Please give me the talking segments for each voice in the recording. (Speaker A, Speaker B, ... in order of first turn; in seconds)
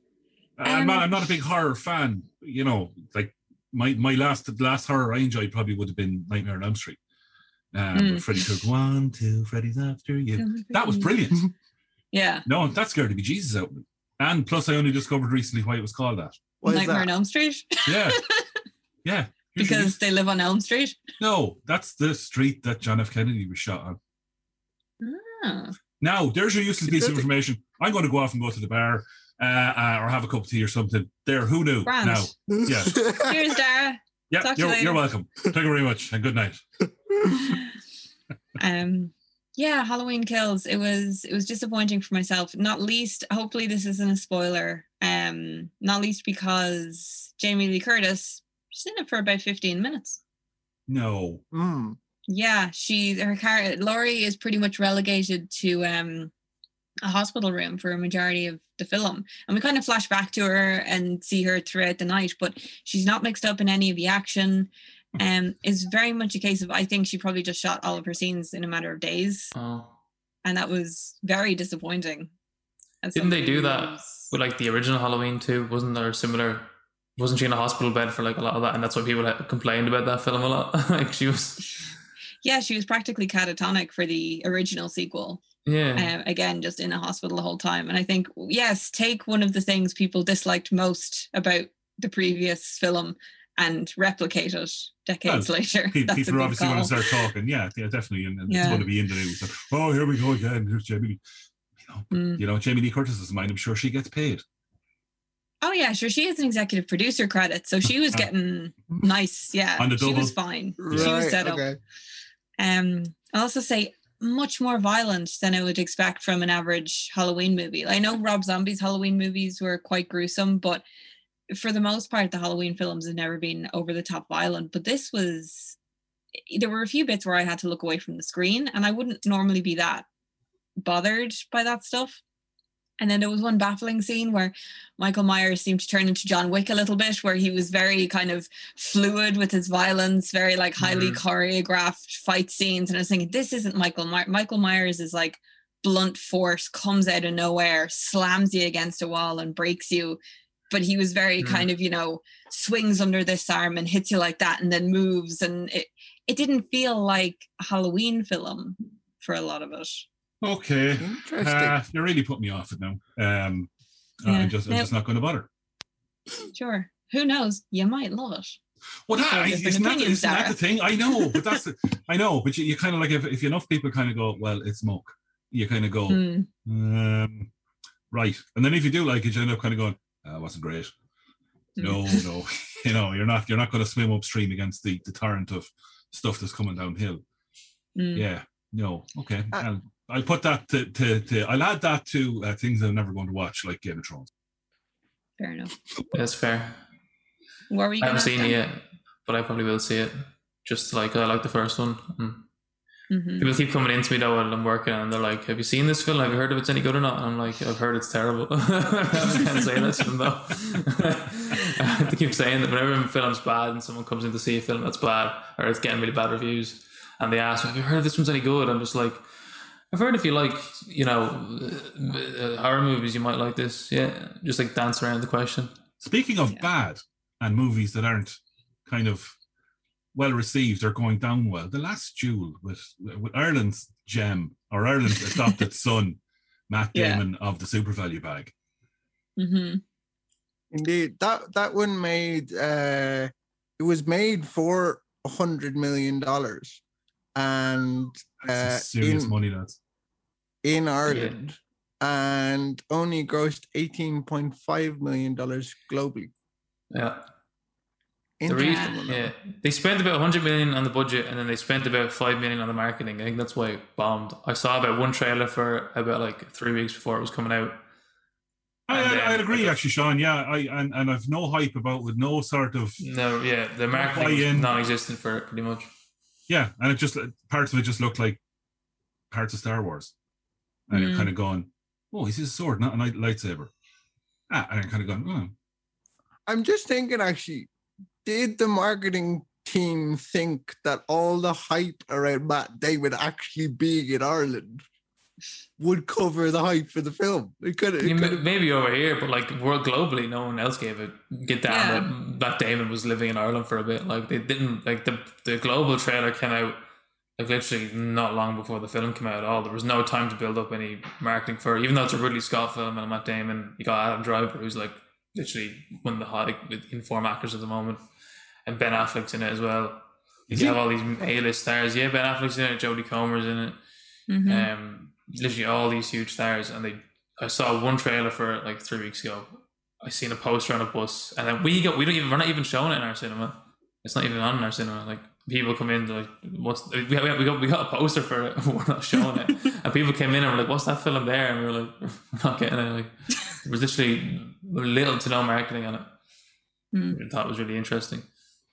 Speaker A: 0.6-7.0, 7.7-11.5, 12.5-16.4, 17.9-18.2, 19.0-20.0, 21.2-24.0, 26.0-33.0, 34.3-36.6, 50.9-51.4, 95.3-101.2, 101.8-104.4, 109.8-110.3, 110.9-111.2, 160.4-163.7, 164.2-165.5, 169.1-177.5, 178.1-180.9, 181.8-187.2, 188.2-194.3, 226.0-228.4, 228.9-229.4, 230.2-238.5, 248.5-249.8, 268.9-273.0, 273.9-274.8, 276.5-278.4, 279.3-280.1, 280.9-283.7, 284.5-285.5, 320.5-320.8
Speaker B: 0.6-1.2, 7.9-8.3, 10.4-11.2, 12.1-12.4, 16.7-18.4, 19.6-21.0, 25.0-25.8, 31.9-32.4, 33.2-35.0, 38.6-50.2, 52.3-56.3, 57.0-69.5, 70.5-72.3, 73.0-74.3, 82.4-85.4, 86.0-97.3, 98.5-98.9, 102.1-102.4, 105.6-111.7, 112.6-120.8, 121.5-125.8, 126.5-130.1, 130.8-132.2, 133.0-160.1, 164.3-164.9, 166.5-168.6, 169.3-170.6, 176.1-176.5, 181.8-182.2, 188.0-188.3, 195.4-195.7, 197.7-198.6, 203.1-203.5, 236.9-237.2, 239.4-239.8, 258.5-259.0, 280.9-281.3, 301.7-302.1, 324.3-324.7
Speaker C: 16.6-17.1, 26.8-27.2, 32.5-33.4, 51.5-52.0, 110.8-111.8, 161.0-161.8, 240.7-246.8, 247.3-249.3, 250.6-256.3, 258.4-259.3, 286.5-287.7, 288.2-294.9, 295.8-298.5
Speaker D: 69.5-69.9, 73.2-81.8, 85.7-86.1, 140.8-141.2, 151.4-151.7, 196.1-196.8, 198.0-202.5, 203.4-219.3, 219.9-225.8, 251.1-251.3, 256.9-257.2, 258.5-267.8, 268.9-269.8, 273.0-275.9, 298.0-306.8, 307.4-318.0, 318.7-323.8, 324.5-346.1, 347.1-348.3